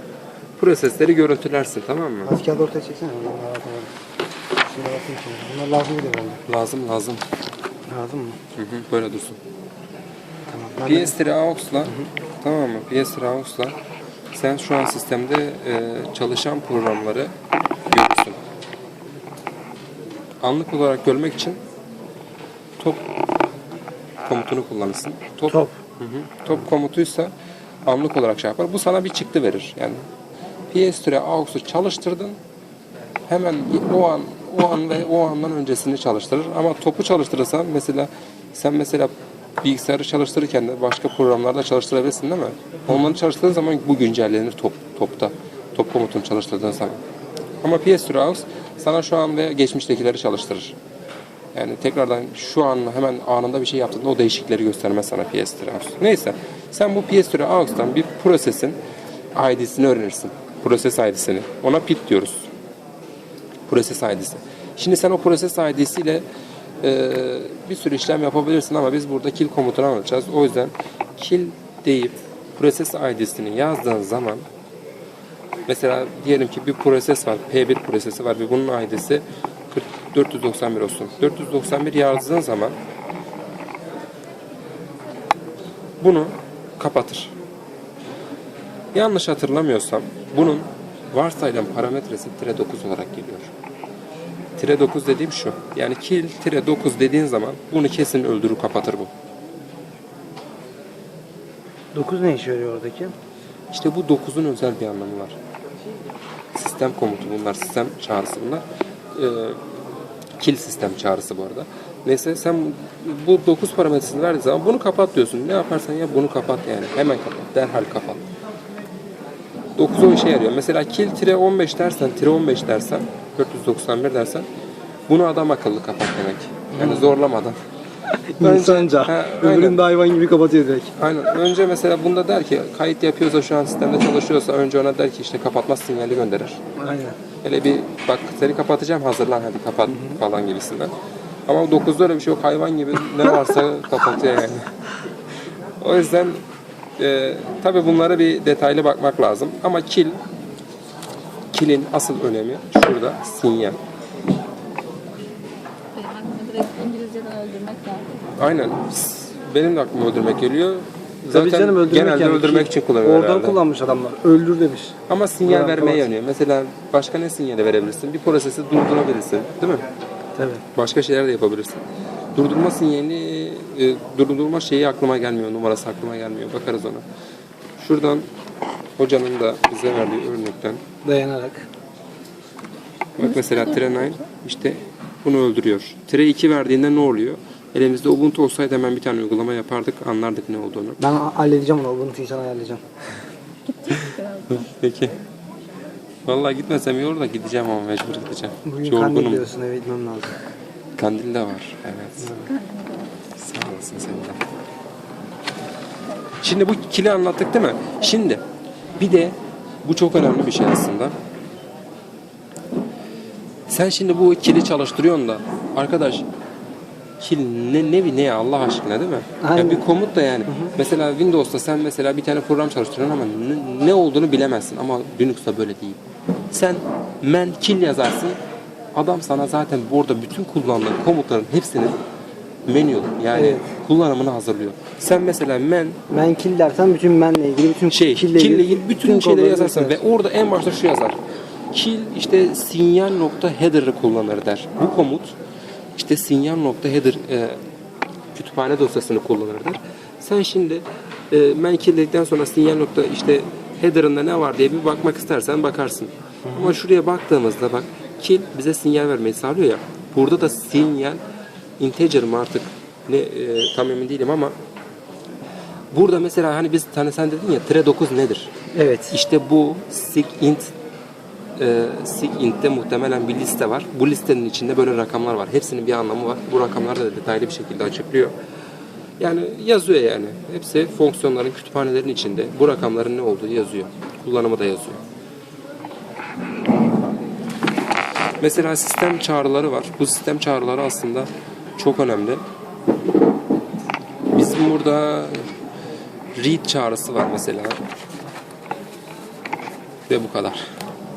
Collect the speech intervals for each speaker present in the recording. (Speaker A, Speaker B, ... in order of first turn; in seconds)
Speaker A: 0.6-2.3, 6.5-7.2, 8.6-9.4, 10.9-13.8, 14.3-17.3, 17.9-18.4, 20.4-21.6, 22.8-23.1, 24.2-27.3, 27.9-30.0, 30.7-32.4, 33.3-47.0, 47.6-50.8, 51.5-58.8, 59.4-62.5, 63.7-66.2, 66.8-74.5, 75.7-82.8, 86.0-87.3, 88.9-93.5, 94.6-99.1, 103.7-105.4, 106.5-109.6, 110.4-118.2, 119.8-124.5, 125.1-127.6, 128.4-129.8, 131.0-136.6, 137.4-140.9, 141.5-144.7, 145.8-146.4, 147.0-150.2, 151.5-153.8, 158.4-163.6, 165.1-169.8, 170.8-171.8, 172.4-177.0, 177.8-178.3, 179.0-180.8, 183.2-191.0, 193.9-195.2, 196.3-199.5, 201.0-202.3, 203.4-204.4, 206.4-208.4, 209.0-211.2, 213.7-216.2, 217.2-226.0, 226.5-228.4, 228.9-232.0, 232.7-236.0, 237.9-241.2, 241.7-245.3, 246.0-247.6, 248.3-261.2, 261.8-264.5, 265.9-268.5, 269.1-270.7, 271.6-278.3, 279.2-285.0, 288.4-292.4, 294.3-295.5, 296.4-297.8, 300.1-300.6
Speaker B: 2.2-3.9, 4.7-6.4, 7.9-8.4, 10.5-11.2, 101.9-103.1, 126.7-127.2, 128.3-130.9, 136.8-137.2, 139.9-140.2, 161.3-166.1, 170.4-170.6, 181.0-181.7, 191.0-192.8, 198.7-200.3, 202.2-202.5, 219.4-219.8, 220.5-220.7, 233.3-233.7, 236.1-240.0, 256.5-256.8, 268.7-269.1
Speaker C: 155.9-158.2, 183.2-184.2, 193.9-194.6, 202.4-203.1